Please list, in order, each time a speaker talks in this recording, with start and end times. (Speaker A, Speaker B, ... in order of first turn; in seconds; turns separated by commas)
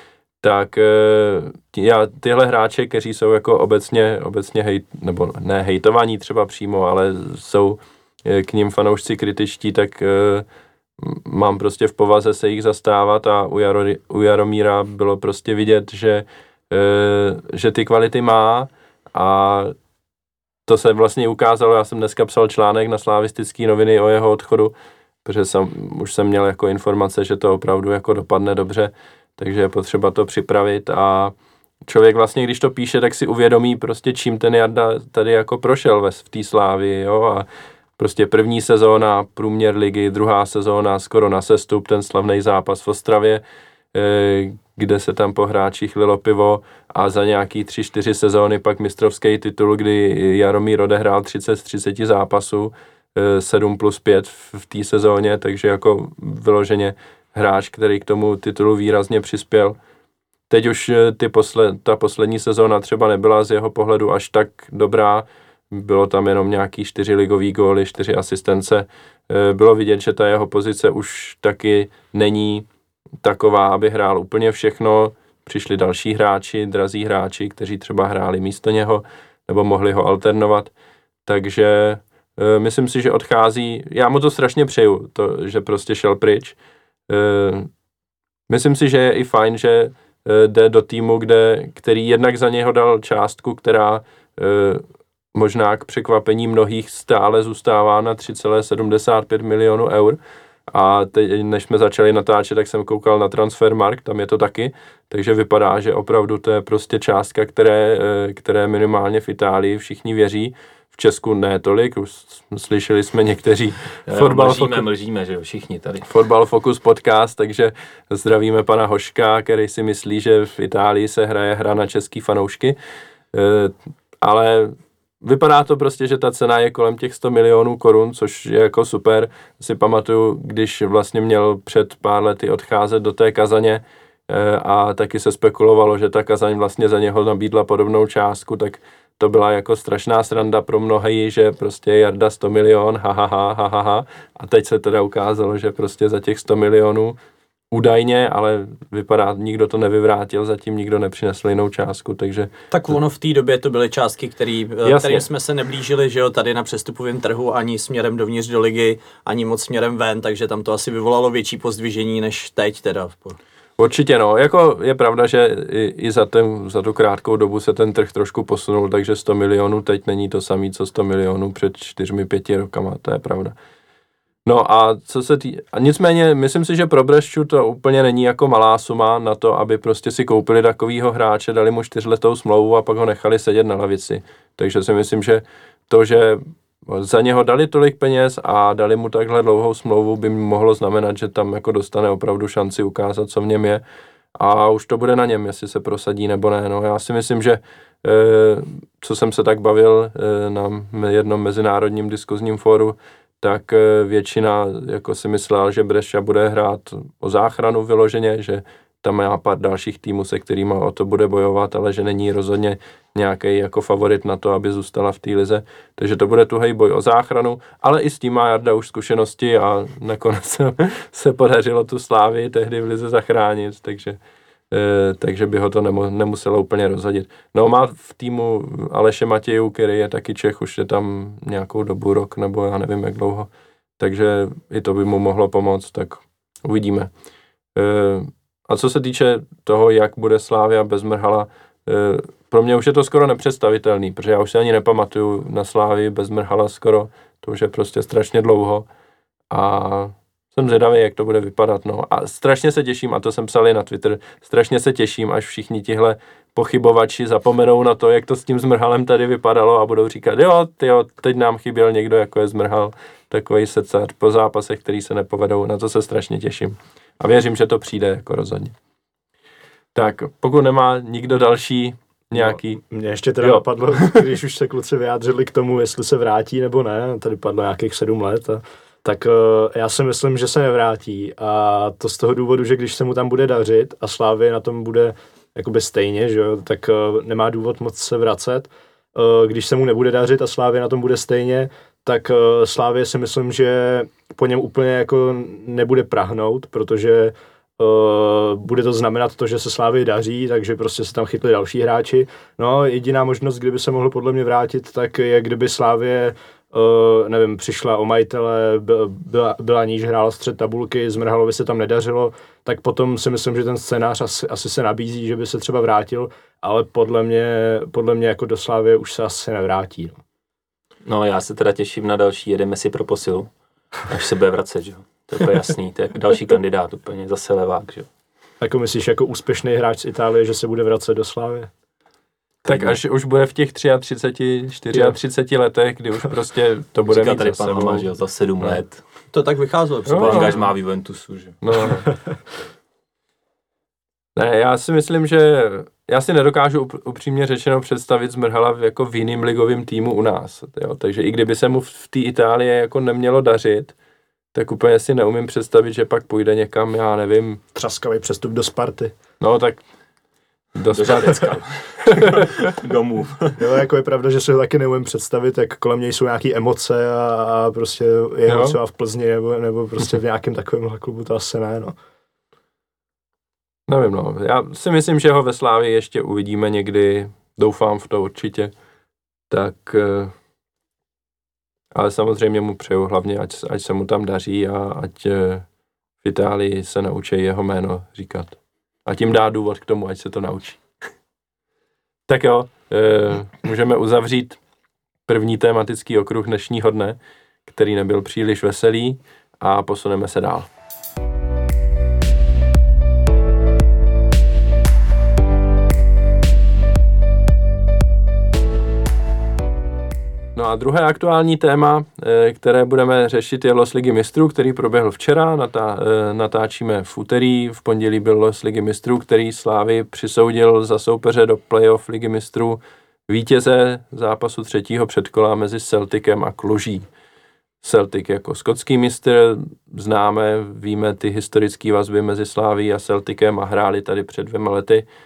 Speaker A: 0.4-10.4, Speaker A: 11.0-19.7, Speaker A: 20.7-24.7, Speaker A: 25.2-31.3, Speaker A: 31.9-37.5, Speaker A: 38.0-43.4, Speaker A: 43.9-59.8, Speaker A: 60.5-72.7, Speaker A: 73.2-80.7, Speaker A: 81.2-86.6, Speaker A: 87.1-87.7, Speaker A: 88.5-100.2, Speaker A: 100.7-114.8, Speaker B: 114.0-116.1, Speaker A: 116.1-122.8, Speaker A: 123.3-147.2, Speaker A: 147.7-152.5, Speaker C: 152.7-163.4, Speaker A: 154.8-155.2, Speaker A: 163.8-173.6, Speaker A: 174.4-193.8, Speaker A: 194.4-224.2, Speaker A: 224.7-237.1, Speaker A: 237.7-248.9, Speaker A: 249.5-268.7, Speaker A: 269.9-272.8, Speaker D: 272.4-320.2, Speaker A: 273.4-274.2, Speaker B: 321.0-323.5, Speaker B: 324.1-328.1, Speaker D: 328.6-331.7, Speaker B: 332.6-333.0, Speaker A: 332.6-338.1, Speaker B: 337.1-339.0, Speaker C: 339.3-340.6, Speaker A: 340.1-340.5, Speaker B: 340.2-341.6, Speaker A: 341.6-342.1, Speaker A: 344.4-353.9, Speaker A: 354.5-357.6, Speaker D: 357.7-359.1, Speaker A: 359.4-359.8, Speaker A: 360.7-361.5, Speaker B: 360.9-363.6, Speaker D: 363.6-371.9, Speaker A: 368.5-368.8, Speaker A: 373.9-378.7, Speaker A: 379.5-380.3, Speaker A: 381.9-385.6, Speaker A: 386.2-390.8, Speaker A: 392.3-394.6, Speaker A: 395.3-400.7, Speaker A: 410.5-427.1, Speaker A: 427.8-435.0